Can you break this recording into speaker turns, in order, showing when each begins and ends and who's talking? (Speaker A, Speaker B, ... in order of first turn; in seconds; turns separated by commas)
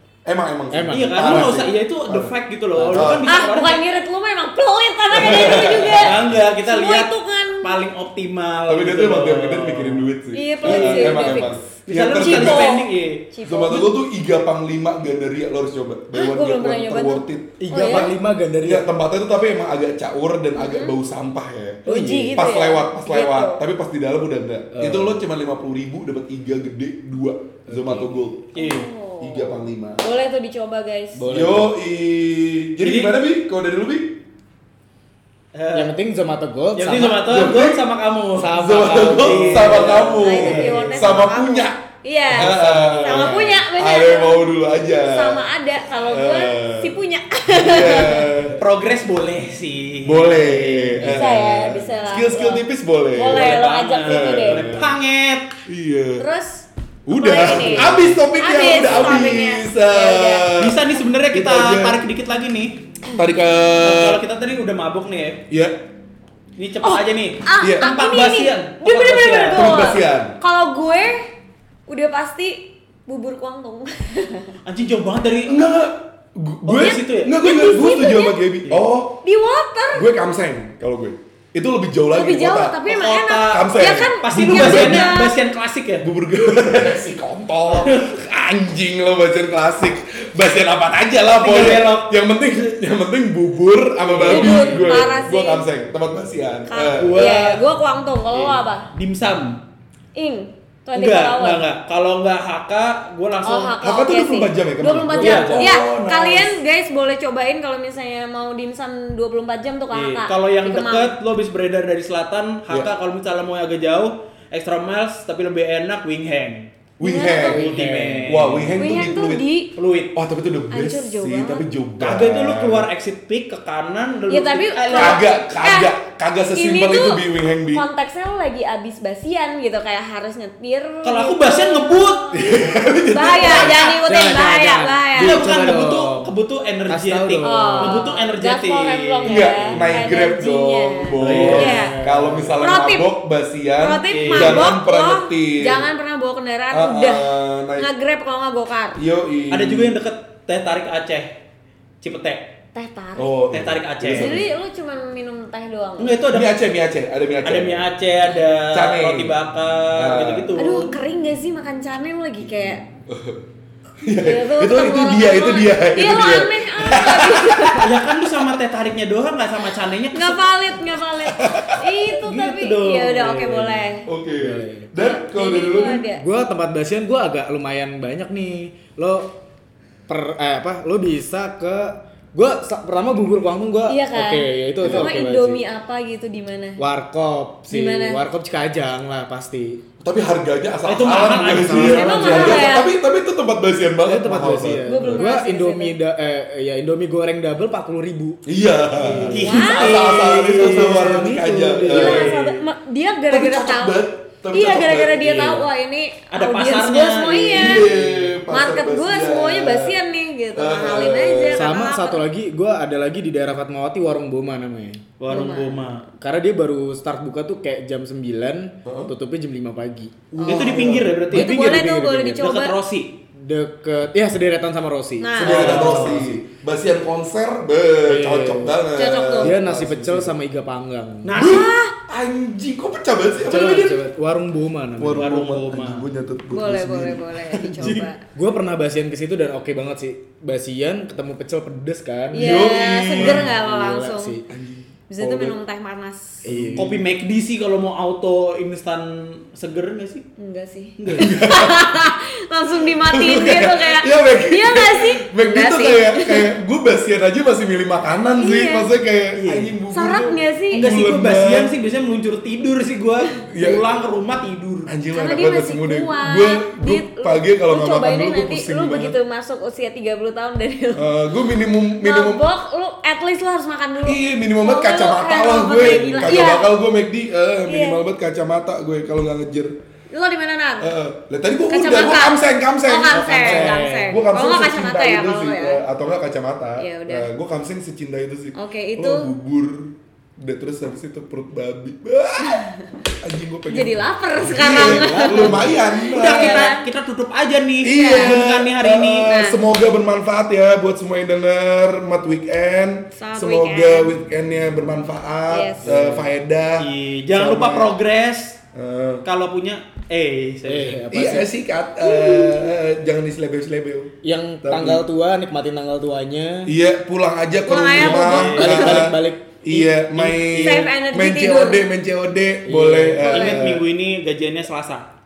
Speaker A: 0.2-2.3, Speaker B: 0.7-1.6, Speaker C: 0.9-3.9, Speaker B: 2.7-3.1, Speaker A: 2.9-3.4, Speaker D: 3.3-7.8, Speaker A: 5.1-6.2, Speaker C: 5.6-10.1, Speaker A: 8.7-12.7, Speaker D: 10.3-13.9, Speaker C: 10.6-11.3, Speaker C: 11.9-13.3, Speaker A: 13.4-18.1, Speaker D: 16.1-18.1, Speaker B: 17.6-18.9, Speaker A: 18.6-21.8, Speaker D: 20.6-20.9, Speaker B: 21.9-22.5, Speaker D: 21.9-23.6, Speaker A: 22.3-28.5, Speaker B: 24.7-25.2, Speaker B: 27.7-28.1, Speaker C: 28.5-28.9, Speaker D: 28.5-31.2, Speaker A: 29.2-30.0, Speaker B: 31.1-31.7, Speaker A: 31.3-34.2, Speaker C: 32.8-33.2, Speaker C: 35.5-35.9, Speaker B: 35.7-37.5, Speaker C: 36.8-40.7, Speaker A: 37.2-37.9, Speaker B: 38.4-40.7, Speaker A: 38.5-47.0, Speaker D: 40.0-48.3, Speaker C: 42.3-43.5, Speaker A: 47.5-48.6, Speaker C: 48.6-51.2, Speaker A: 50.0-55.0, Speaker D: 51.0-54.8, Speaker C: 53.2-55.5, Speaker A: 55.7-56.2, Speaker D: 56.2-60.5, Speaker A: 57.1-62.0, Speaker C: 60.6-62.8, Speaker A: 63.1-64.2, Speaker C: 63.8-65.4, Speaker A: 65.5-65.8, Speaker C: 66.6-69.8, Speaker D: 66.8-71.3, Speaker A: 67.6-67.9, Speaker A: 69.5-70.3, Speaker D: 71.9-74.5, Speaker C: 74.7-75.6, Speaker A: 75.5-79.2, Speaker C: 76.6-77.3, Speaker D: 76.8-78.4, Speaker D: 79.2-80.1, Speaker A: 79.9-82.8, Speaker D: 82.1-85.3, Speaker C: 82.9-86.1, Speaker A: 83.5-85.2, Speaker A: 86.0-97.3, Speaker C: 87.7-88.1, Speaker C: 91.4-92.1, Speaker C: 94.0-95.1, Speaker D: 94.3-95.6, Speaker D: 96.7-98.9, Speaker C: 96.9-97.7, Speaker C: 98.3-99.6, Speaker D: 100.1-101.6, Speaker C: 100.9-103.8, Speaker D: 103.4-111.1, Speaker A: 103.8-106.6, Speaker C: 105.2-105.8, Speaker C: 109.9-116.7, Speaker A: 117.0-117.7, Speaker D: 117.0-117.6, Speaker C: 117.4-118.7, Speaker B: 117.5-118.7, Speaker A: 118.2-119.5, Speaker D: 118.8-119.7, Speaker C: 119.8-120.1, Speaker A: 120.1-122.9, Speaker D: 120.7-121.7, Speaker C: 122.0-125.2, Speaker D: 124.3-125.9, Speaker A: 124.9-127.9, Speaker D: 126.5-135.4, Speaker C: 131.0-132.4, Speaker A: 132.3-133.9, Speaker B: 133.7-136.3, Speaker C: 135.2-139.8, Speaker B: 136.9-138.0, Speaker D: 137.4-142.0, Speaker A: 139.2-145.9, Speaker C: 141.2-141.9, Speaker B: 141.2-142.6, Speaker D: 142.6-143.1, Speaker D: 143.8-149.0, Speaker C: 144.1-144.7, Speaker A: 146.7-147.9, Speaker A: 148.9-150.0, Speaker C: 149.5-151.3, Speaker C: 152.0-152.5, Speaker D: 152.7-153.3, Speaker A: 153.2-154.5, Speaker C: 153.5-154.4, Speaker D: 154.1-156.2, Speaker C: 156.0-156.6, Speaker A: 156.3-157.9, Speaker C: 157.4-160.9, Speaker A: 158.7-159.3, Speaker A: 159.9-160.5, Speaker D: 160.6-162.8, Speaker A: 163.1-163.4, Speaker A: 164.0-168.0, Speaker D: 164.1-167.9, Speaker C: 167.7-170.4, Speaker D: 170.1-174.1, Speaker A: 171.2-171.8, Speaker C: 172.1-173.9, Speaker A: 174.1-176.1, Speaker B: 174.4-174.9, Speaker D: 174.9-176.2, Speaker B: 176.2-179.3, Speaker B: 180.1-185.6, Speaker D: 183.9-186.8, Speaker A: 184.8-185.2, Speaker B: 186.8-189.8, Speaker D: 187.7-188.2, Speaker A: 190.0-195.3, Speaker C: 190.8-192.8, Speaker B: 191.5-192.3, Speaker D: 191.7-192.9, Speaker B: 194.0-198.4, Speaker D: 194.8-195.9, Speaker A: 198.4-202.3, Speaker B: 199.0-199.4, Speaker C: 199.3-201.3, Speaker D: 199.4-200.1, Speaker B: 200.1-202.3, Speaker C: 201.9-202.6, Speaker D: 201.9-204.0, Speaker A: 203.3-205.7, Speaker D: 204.5-207.9, Speaker C: 206.3-207.9, Speaker A: 207.5-210.0, Speaker B: 207.9-208.3, Speaker D: 208.5-212.2, Speaker A: 210.5-211.7, Speaker B: 211.5-215.0, Speaker C: 215.2-216.0, Speaker D: 215.3-216.0, Speaker B: 216.2-220.1, Speaker A: 218.8-219.1, Speaker C: 220.3-223.2, Speaker D: 220.4-222.7, Speaker A: 220.4-221.2, Speaker B: 221.3-222.4, Speaker B: 223.3-226.3, Speaker D: 225.2-225.9, Speaker C: 225.4-226.2, Speaker A: 225.4-230.3, Speaker B: 228.0-228.8, Speaker D: 228.9-229.5, Speaker B: 229.4-231.3, Speaker C: 231.2-231.7, Speaker D: 231.3-231.9, Speaker A: 231.4-234.0, Speaker B: 233.4-235.4, Speaker A: 235.0-238.0, Speaker C: 235.1-236.1, Speaker D: 236.5-238.2, Speaker B: 237.8-244.4, Speaker D: 242.3-244.4, Speaker A: 242.3-243.5, Speaker A: 244.5-245.6, Speaker D: 245.1-246.5, Speaker B: 246.4-247.0, Speaker A: 246.5-247.0, Speaker C: 246.8-250.2, Speaker D: 250.4-256.5, Speaker C: 251.0-251.3, Speaker A: 251.1-251.9, Speaker A: 253.0-261.7, Speaker D: 258.4-258.9, Speaker C: 259.4-259.7, Speaker D: 259.9-260.9, Speaker C: 260.7-264.9, Speaker A: 263.5-263.8, Speaker A: 264.9-269.1, Speaker D: 265.1-276.7, Speaker A: 270.9-272.4, Speaker A: 274.0-279.7, Speaker D: 277.7-278.0, Speaker D: 280.1-280.9, Speaker A: 280.8-292.6, Speaker D: 281.7-285.8, Speaker B: 283.1-284.1, Speaker D: 286.8-287.3, Speaker D: 288.5-289.3, Speaker D: 292.4-292.9, Speaker A: 293.2-296.7, Speaker D: 293.7-296.9, Speaker B: 294.6-295.8, Speaker C: 296.1-299.4, Speaker A: 297.8-308.0, Speaker D: 297.9-298.4, Speaker D: 299.2-299.6, Speaker D: 303.1-304.1, Speaker D: 305.5-305.8, Speaker B: 305.8-306.3, Speaker C: 306.8-308.6, Speaker A: 308.7-309.2, Speaker C: 309.2-311.0, Speaker B: 310.7-311.5, Speaker A: 311.1-315.0, Speaker D: 312.0-312.7, Speaker B: 314.2-316.7, Speaker A: 316.6-323.8, Speaker D: 317.6-318.9, Speaker C: 318.0-319.0, Speaker B: 318.0-320.8, Speaker D: 320.6-321.8, Speaker B: 322.6-323.3, Speaker D: 323.2-323.6, Speaker C: 323.3-325.1